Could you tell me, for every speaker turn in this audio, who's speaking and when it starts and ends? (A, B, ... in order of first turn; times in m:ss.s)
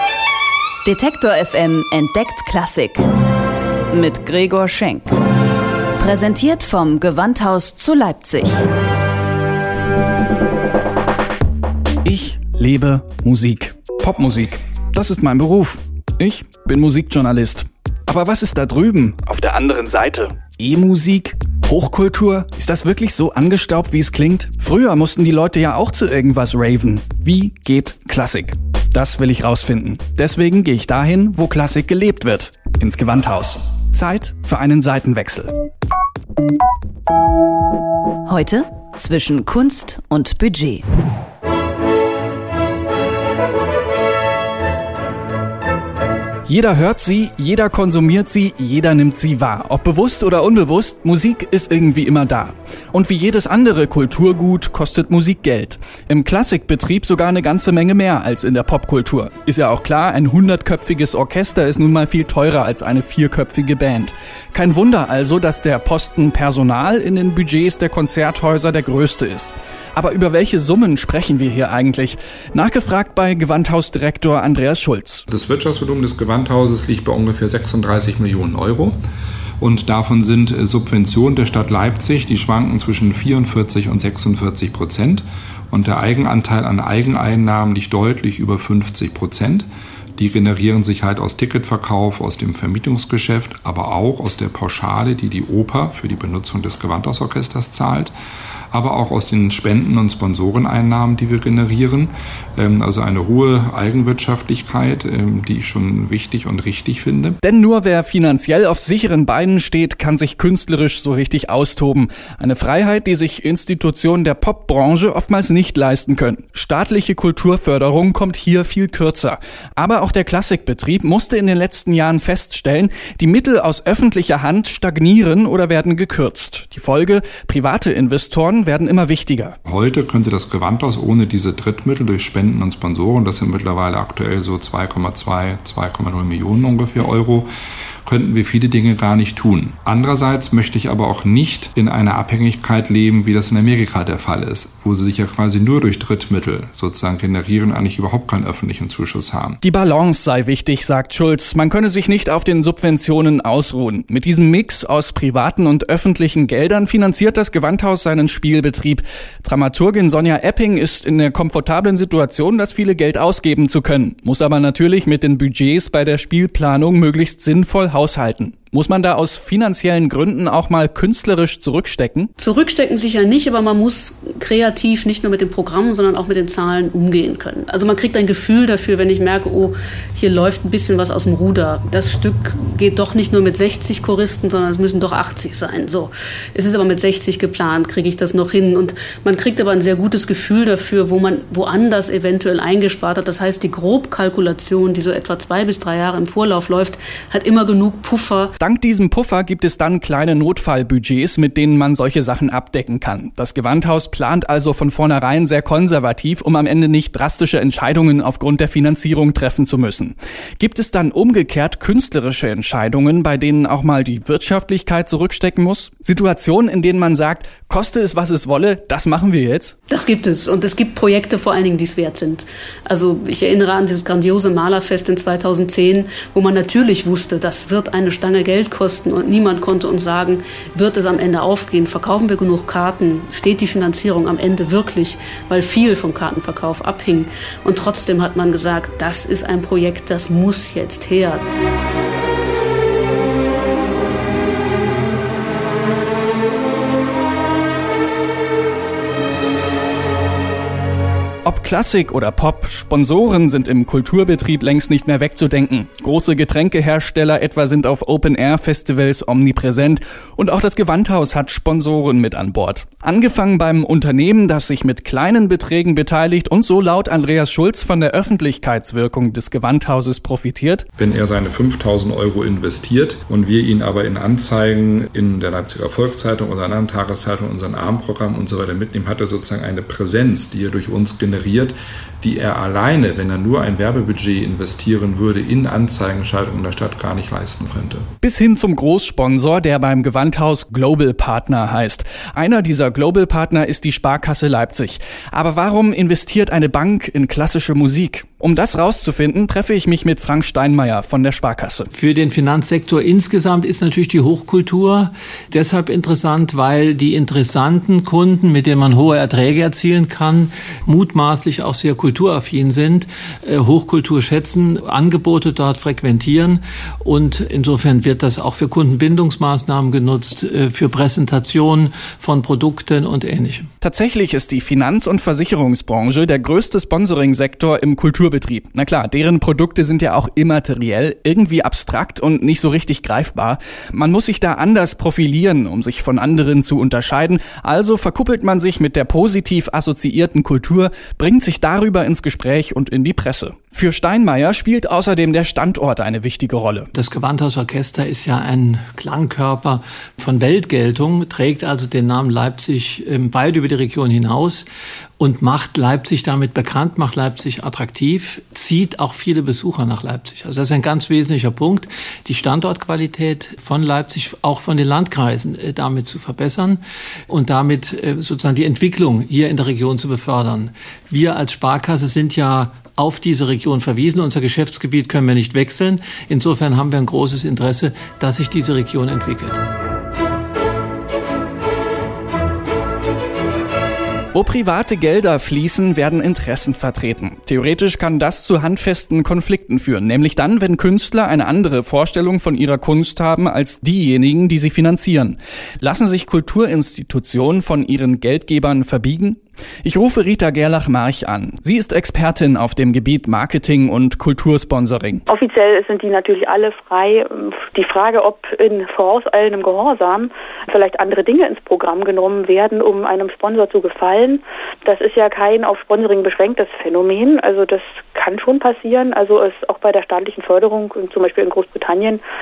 0:00.8-0:03.0 A
0:03.9-0:05.1 A
0:06.0-0:08.6 A
0:12.0-0:35.5 B
0:38.3-0:40.8 A
0:46.4-1:15.2 B
1:15.3-1:19.0 C
1:19.6-1:38.1 C
1:38.7-1:47.4 C
1:47.4-2:09.6 B
2:09.6-2:17.5 C
2:18.0-2:29.6 C
2:29.6-2:52.3 B
2:52.4-3:18.5 D
3:18.6-3:39.8 B
3:39.9-4:01.4 D
4:11.4-4:30.8 B
4:31.0-4:48.1 C
4:48.2-5:01.9 B
5:01.9-5:23.6 E
5:23.8-5:46.9 B
5:46.9-5:54.7 E
5:55.2-6:19.6 E
6:24.3-6:45.2 B
6:45.3-7:02.2 F